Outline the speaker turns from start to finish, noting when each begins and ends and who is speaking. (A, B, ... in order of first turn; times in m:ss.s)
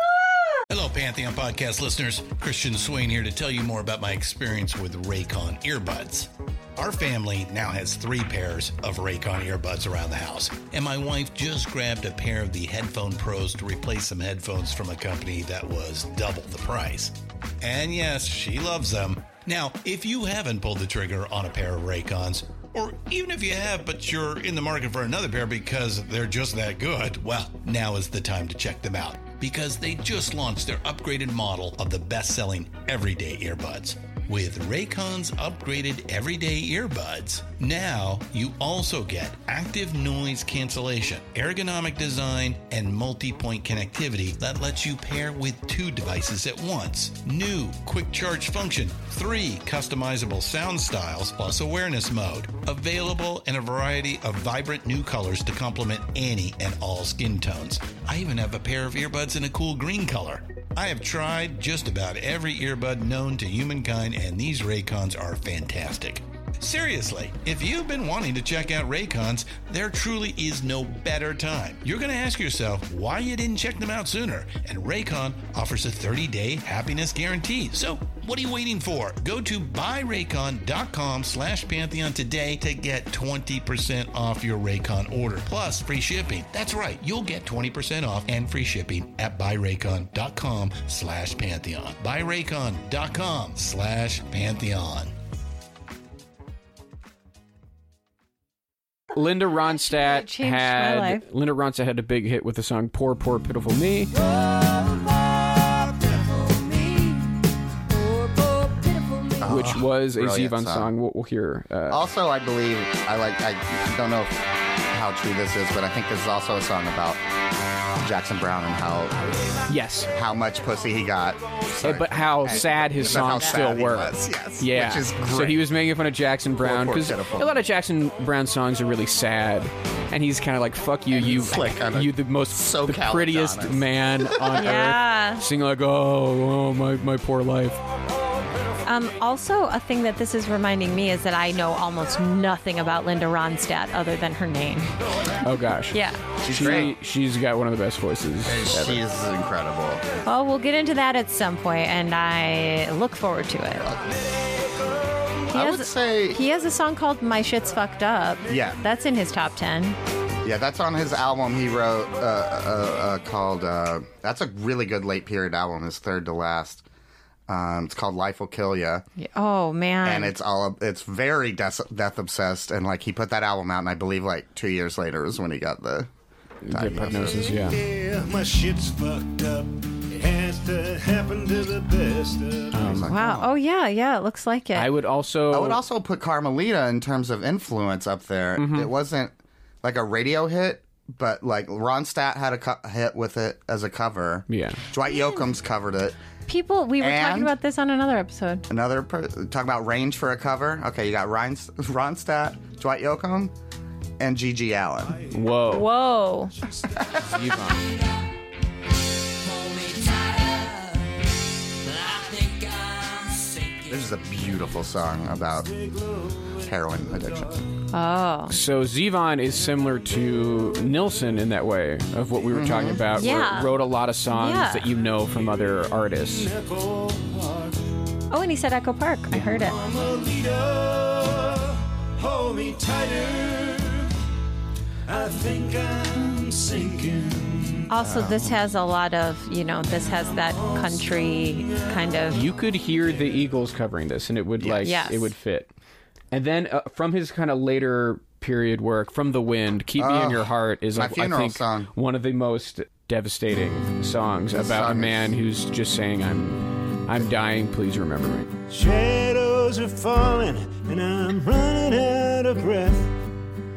0:00.7-1:35.1 A
1:39.1-1:44.1 B
1:39.7-1:41.2 C
1:44.3-1:47.3 D
1:48.1-1:49.4 D
1:49.4-1:50.9 E
1:49.4-1:52.0 B
1:51.9-1:54.4 E
1:54.9-1:57.2 E
1:58.0-1:59.2 E
1:59.7-2:00.1 B
2:00.1-2:05.7 E
2:01.8-2:17.8 B
2:06.6-2:07.6 E
2:11.1-2:14.6 E
2:14.6-2:15.4 C
2:18.8-2:24.9 C
2:25.4-2:29.0 B
2:25.9-2:26.8 C
2:26.4-2:26.9 E
2:28.4-2:30.0 E
2:30.3-2:33.9 C
2:34.0-2:35.3 D
2:35.5-2:36.4 E
2:35.5-2:40.0 C
2:38.5-2:38.8 E
2:40.4-2:46.8 E
2:47.5-2:49.1 E
2:49.2-2:50.3 C
2:50.0-2:56.1 E
2:56.6-2:57.8 B
2:56.7-2:57.6 E
2:57.2-3:02.9 D
3:02.7-3:03.1 B
3:02.8-3:03.5 E
3:03.1-3:04.9 C
3:04.8-3:05.8 B
3:05.5-3:16.2 E
3:08.6-3:08.9 B
3:14.5-3:14.8 B
3:15.1-3:15.4 C
3:16.5-3:18.6 C
3:17.0-3:17.6 E
3:18.7-3:23.5 E
3:24.2-3:25.2 E
3:25.1-3:25.6 D
3:25.3-3:25.9 B
3:25.6-3:26.5 C
3:26.7-3:27.4 D
3:27.2-3:27.9 B
3:29.4-3:31.0 D
3:31.8-3:33.9 D
3:33.9-3:35.7 E
3:35.6-3:37.6 D
3:36.6-3:37.6 E
3:37.9-3:38.6 C
3:38.5-3:46.5 B
3:42.5-3:43.0 E
3:43.1-3:44.9 C
3:45.1-3:47.8 D
3:48.3-3:49.8 C
3:49.3-3:54.1 D
3:55.1-3:57.9 D
3:57.9-4:02.4 C
3:57.9-3:58.6 E
3:59.9-4:03.4 D
4:02.3-4:05.7 B
4:04.6-4:04.9 E
4:04.8-4:05.3 C
4:06.3-4:18.5 B
4:10.0-4:11.9 E
4:14.5-4:15.4 E
4:18.7-4:23.2 D